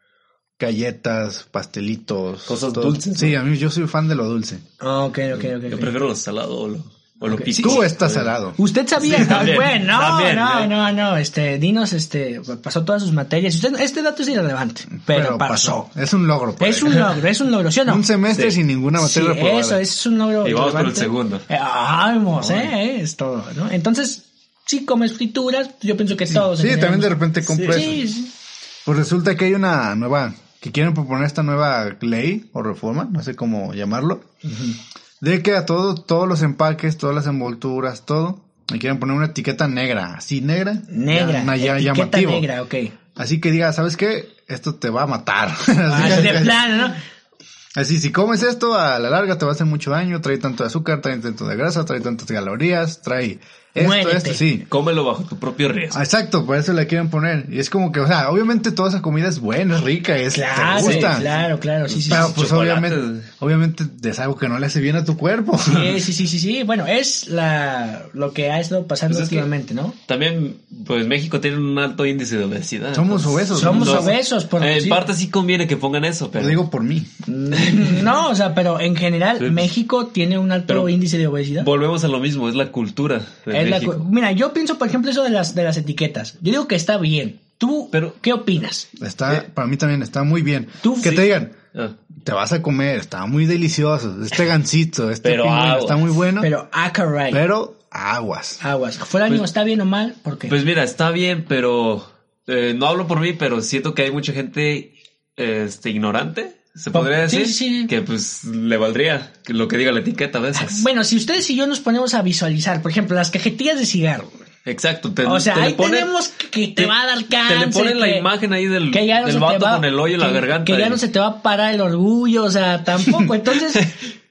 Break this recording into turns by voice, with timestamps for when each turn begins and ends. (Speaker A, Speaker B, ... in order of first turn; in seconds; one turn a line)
Speaker A: 0.6-4.6
Speaker B: 2.5-3.3
Speaker C: 4.8-5.9
Speaker B: 5.4-8.3
Speaker A: 7.3-8.6
Speaker C: 7.5-7.8
Speaker C: 8.6-15.9
Speaker B: 9.0-10.7
Speaker A: 14.9-17.0
Speaker C: 16.6-18.1
Speaker A: 17.9-19.8
Speaker B: 18.3-18.6
Speaker C: 19.0-28.3
Speaker B: 20.4-21.4
Speaker A: 22.4-22.7
Speaker A: 26.3-28.0
Speaker B: 27.5-27.9
Speaker A: 28.8-34.2
Speaker C: 34.4-34.8
Speaker A: 35.2-42.5
Speaker C: 40.9-42.9
Speaker A: 43.1-46.6
Speaker C: 45.9-47.0
Speaker A: 47.8-54.6
Speaker C: 53.8-54.4
Speaker B: 54.7-56.0
Speaker A: 55.9-61.3
Speaker C: 60.3-62.3
Speaker B: 60.7-63.3
Speaker A: 62.1-66.0
Speaker C: 65.6-70.0
Speaker B: 69.1-69.5
Speaker B: 70.1-76.6
Speaker A: 72.9-74.1
Speaker C: 73.5-75.0
Speaker A: 76.3-77.1
Speaker C: 77.2-81.7
Speaker B: 77.6-78.0
Speaker B: 79.4-79.7
Speaker B: 80.7-80.9
Speaker B: 81.6-84.0
Speaker C: 83.5-88.9
Speaker A: 89.0-91.5
Speaker C: 90.8-91.2
Speaker A: 92.2-96.5
Speaker B: 95.2-96.1
Speaker C: 96.4-97.4
Speaker A: 97.3-98.6
Speaker C: 98.6-100.6
Speaker B: 100.5-110.9
Speaker C: 106.9-107.9
Speaker C: 110.5-114.3
Speaker B: 114.7-116.1
Speaker C: 115.2-118.3
Speaker B: 117.4-121.0
Speaker C: 118.9-123.9